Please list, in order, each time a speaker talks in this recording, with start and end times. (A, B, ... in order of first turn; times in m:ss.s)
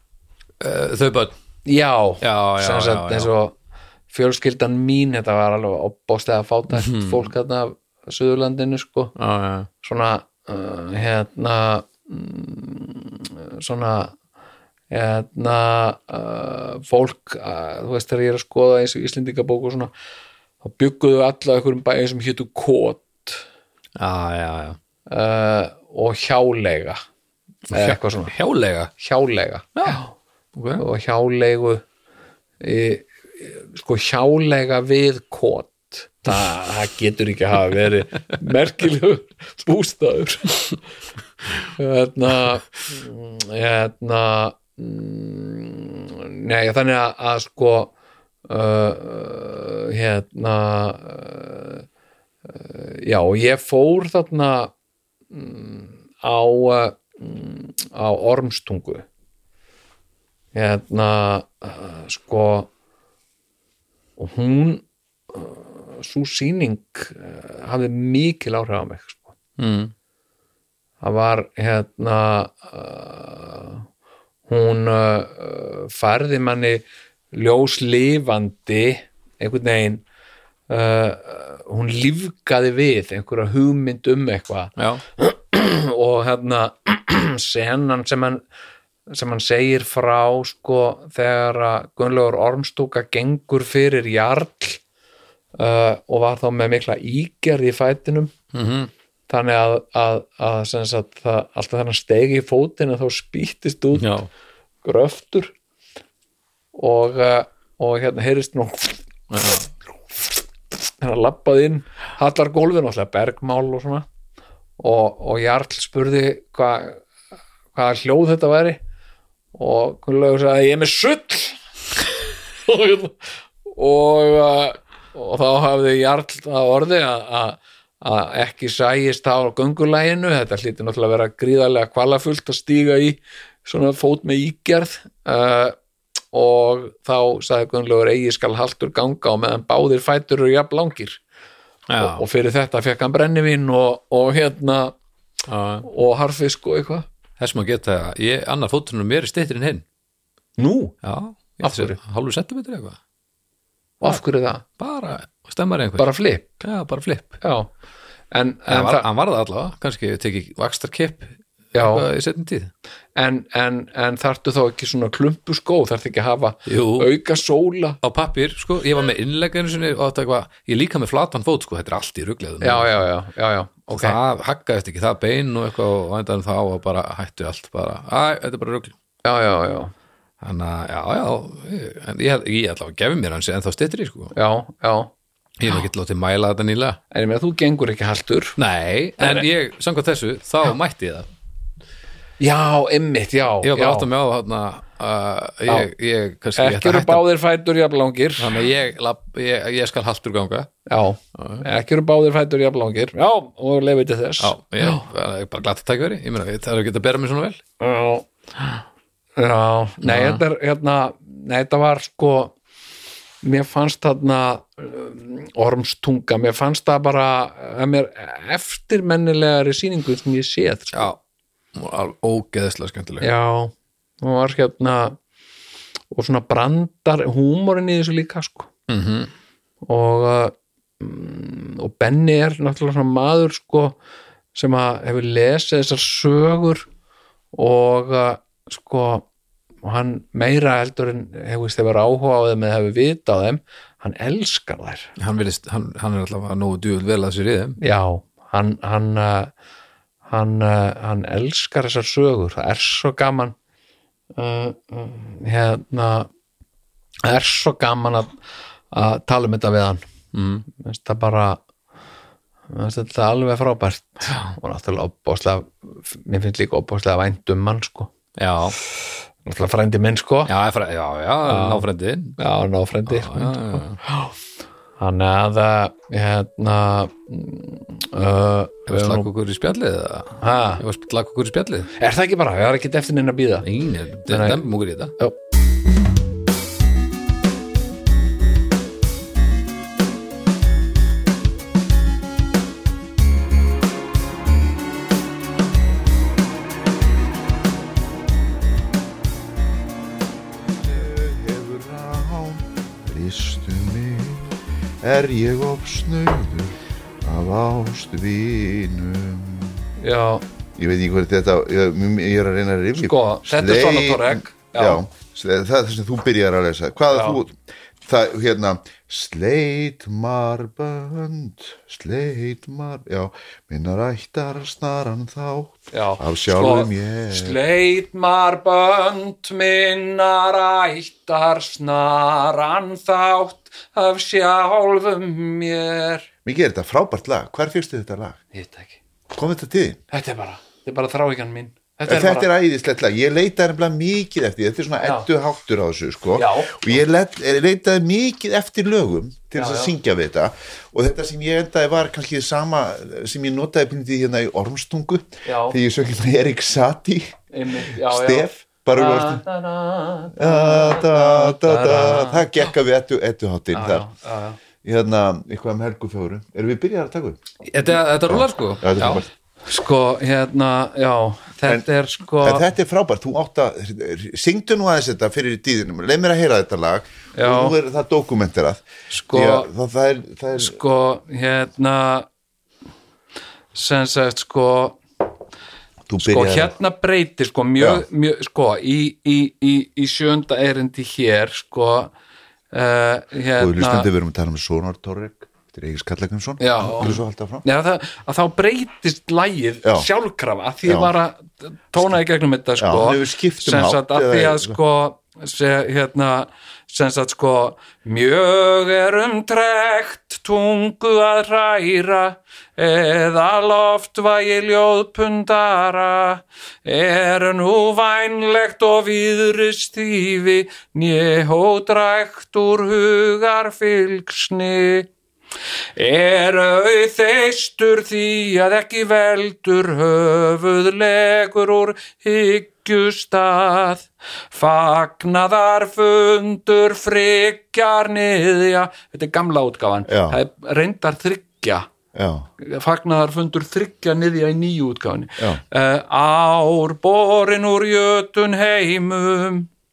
0:00.6-0:01.3 A
0:01.6-0:03.5 B
0:02.2-0:03.3 A
0:04.1-0:09.1 B
0:06.7-0:07.3 A
0:09.2-0:09.7 A
0:09.8-0:14.1 B
0:14.9-0:19.9 B
0:20.6-0:23.4 B
0:24.0-0:24.8 A
0:25.1-0:27.0 B
0:27.7-0:28.9 A
0:27.7-0:28.3 B
0:29.0-0:30.1 B
0:29.8-0:30.0 A
0:30.5-0:30.8 A
0:30.8-0:31.8 B
0:32.6-0:40.8 B
0:41.7-0:47.9 B
0:48.5-0:51.8 B
0:52.4-0:54.7 B
0:55.3-0:59.0 B
1:00.5-1:02.7 B
1:04.2-1:09.3 B
1:09.6-1:09.9 A
1:11.0-1:13.8 B
1:14.5-1:20.0 B
1:20.7-1:28.4 B
1:24.8-1:25.0 A
1:29.1-1:34.8 B
1:35.6-1:38.3 B
1:38.5-1:38.9 A
1:39.3-1:44.0 B
1:43.9-1:44.3 A
1:44.8-1:45.5 B
1:46.7-1:49.0 B
1:49.3-1:49.6 A
1:50.9-1:54.1 B
1:54.8-1:57.0 B
1:57.7-1:58.8 B
1:59.5-2:01.6 B
2:02.7-2:15.8 B
2:16.3-2:21.2 B
2:21.9-2:22.2 A
2:22.0-2:24.9 B
2:25.5-2:25.8 A
2:25.8-2:27.1 B
2:27.4-2:29.8 A
2:30.6-2:31.0 B
2:31.0-2:33.0 A
2:31.6-2:32.0 B
2:34.0-2:34.6 B
2:34.8-2:37.4 A
2:36.0-2:36.6 B
2:37.4-2:37.7 B
2:38.3-2:39.0 B
2:38.7-2:42.7 A
2:41.7-2:42.1 B
2:43.2-2:48.0 B
2:46.7-2:47.1 A
2:48.0-2:52.9 A
2:52.6-2:54.2 B
2:53.9-2:58.9 A
2:59.2-2:59.9 B
3:00.4-3:04.3 A
3:04.3-3:05.1 B
3:05.6-3:07.0 A
3:07.1-3:08.6 B
3:08.6-3:11.3 A
3:09.2-3:09.4 B
3:12.4-3:14.0 B
3:13.6-3:17.2 A
3:16.6-3:18.5 B
3:18.4-3:20.7 A
3:20.9-3:25.0 B
3:21.4-3:21.6 A
3:24.4-3:27.6 A
3:27.8-3:28.8 B
3:29.4-3:32.5 B
3:30.0-3:30.4 A
3:33.4-3:41.1 B
3:41.8-3:43.3 A
3:43.2-3:45.2 B
3:46.1-3:48.7 B
3:48.9-3:49.3 A
3:49.8-3:54.0 B
3:54.5-3:56.9 B
3:57.5-3:59.3 B
3:59.8-4:05.1 B
4:05.2-4:07.8 A
4:07.8-4:09.5 B
4:10.3-4:13.5 B
4:14.4-4:16.3 B
4:17.2-4:18.3 B
4:18.9-4:20.0 B
4:20.3-4:20.6 A
4:20.7-4:21.6 B
4:22.7-4:28.1 B
4:28.4-4:28.8 A
4:29.4-4:30.5 B
4:30.4-4:32.4 A
4:31.4-4:31.9 B
4:32.4-4:34.3 B
4:33.1-4:34.0 A
4:35.0-4:39.3 B
4:38.9-4:41.9 A
4:40.4-4:40.8 B
4:42.0-4:43.7 B
4:43.6-4:45.1 A
4:44.3-4:44.6 B
5:00.7-5:09.8 C
5:10.0-5:10.4 B
5:10.8-5:27.6 C
5:13.0-5:15.0 B
5:17.1-5:17.4 B
5:25.9-5:36.3 B
5:36.4-5:38.4 C
5:38.5-5:39.0 B
5:39.3-5:40.0 C
5:40.1-5:42.5 B
5:42.0-5:57.3 C
5:45.0-5:45.3 B
5:46.3-5:47.0 B
5:49.5-5:49.9 B
5:55.4-5:55.8 B
5:57.5-6:02.6 B
5:58.0-5:59.4 C
6:00.4-6:04.0 C
6:03.7-6:04.6 B
6:04.8-6:07.5 C
6:07.7-6:09.2 A
6:08.2-6:09.3 C
6:09.0-6:12.6 B
6:12.4-6:20.8 C
6:17.3-6:17.7 B
6:19.1-6:19.7 B
6:20.6-6:22.3 B
6:23.7-6:25.0 B
6:26.1-6:26.7 C
6:26.2-6:32.1 B
6:27.8-6:28.0 C
6:32.7-6:34.1 B
6:33.6-6:37.6 C
6:36.6-7:05.1 B
6:40.8-6:41.1 C
6:42.8-6:44.8 C
7:06.0-7:21.9 B
7:20.1-7:20.4 C
7:22.1-7:22.5 C
7:22.6-7:29.7 B